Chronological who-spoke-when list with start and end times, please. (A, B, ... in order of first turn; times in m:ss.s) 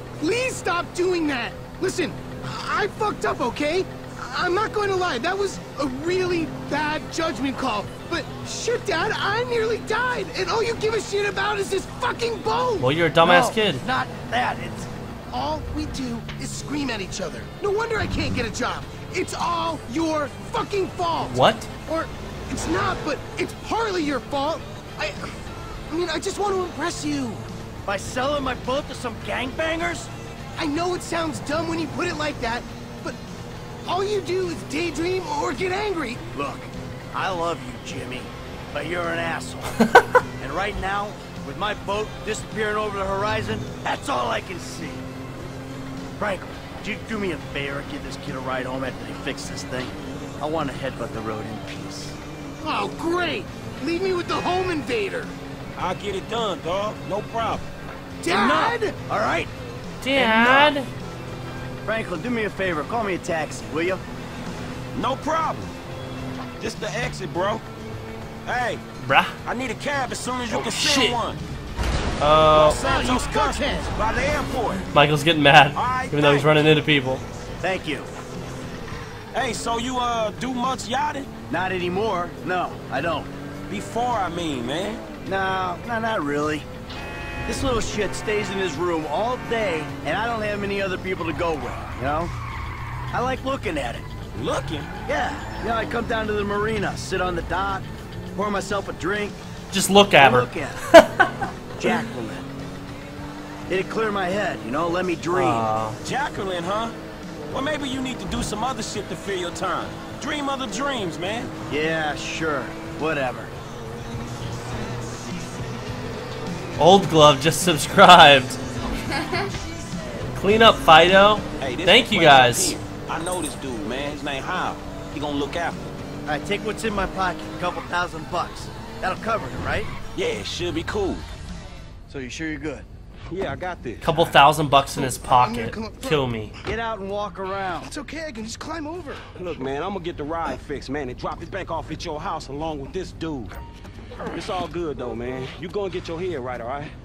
0:00.2-0:12.9 A
0:12.8-0:13.8 B
0:13.2-0:14.9 C
0:15.3-0:27.5 A
0:21.2-0:21.7 B
0:27.9-0:30.1 C
0:30.6-0:33.2 A
0:33.8-0:36.2 A
0:36.3-0:45.0 C
0:46.2-0:52.2 C
0:52.6-0:55.4 A
0:55.8-0:57.7 D
0:58.2-0:59.0 A
0:58.3-0:59.5 C
1:00.0-1:00.9 B
1:00.2-1:00.7 C
1:01.9-1:04.0 C
1:04.9-1:05.8 D
1:06.6-1:07.6 D
1:08.4-1:08.8 D
1:09.0-1:09.4 B
1:09.4-1:11.4 D
1:10.5-1:11.2 B
1:12.2-1:12.8 B
1:12.5-1:14.8 D
1:12.6-1:13.9 A
1:14.9-1:17.2 B
1:15.8-1:16.5 D
1:17.6-1:18.1 C
1:19.3-1:21.3 D
1:21.5-1:23.3 C
1:23.7-1:25.0 D
1:25.2-1:26.7 C
1:27.5-1:32.3 C
1:33.1-1:34.1 C
1:34.3-1:34.9 D
1:35.1-1:39.4 C
1:39.7-1:41.5 B
1:40.1-1:40.8 C
1:41.8-1:42.5 C
1:43.7-1:45.7 C
1:45.3-1:46.0 B
1:46.0-1:47.0 D
1:47.5-1:51.5 D
1:51.7-1:53.5 C
1:56.8-1:58.6 B
2:00.3-2:02.8 B
2:01.6-2:05.9 D
2:06.3-2:09.9 C
2:10.2-2:11.3 D
2:12.1-2:12.9 C
2:13.3-2:14.2 D
2:14.0-2:16.6 B
2:14.9-2:16.2 A
2:16.6-2:17.9 C
2:17.8-2:19.2 A
2:19.4-2:23.6 D
2:24.3-2:27.0 D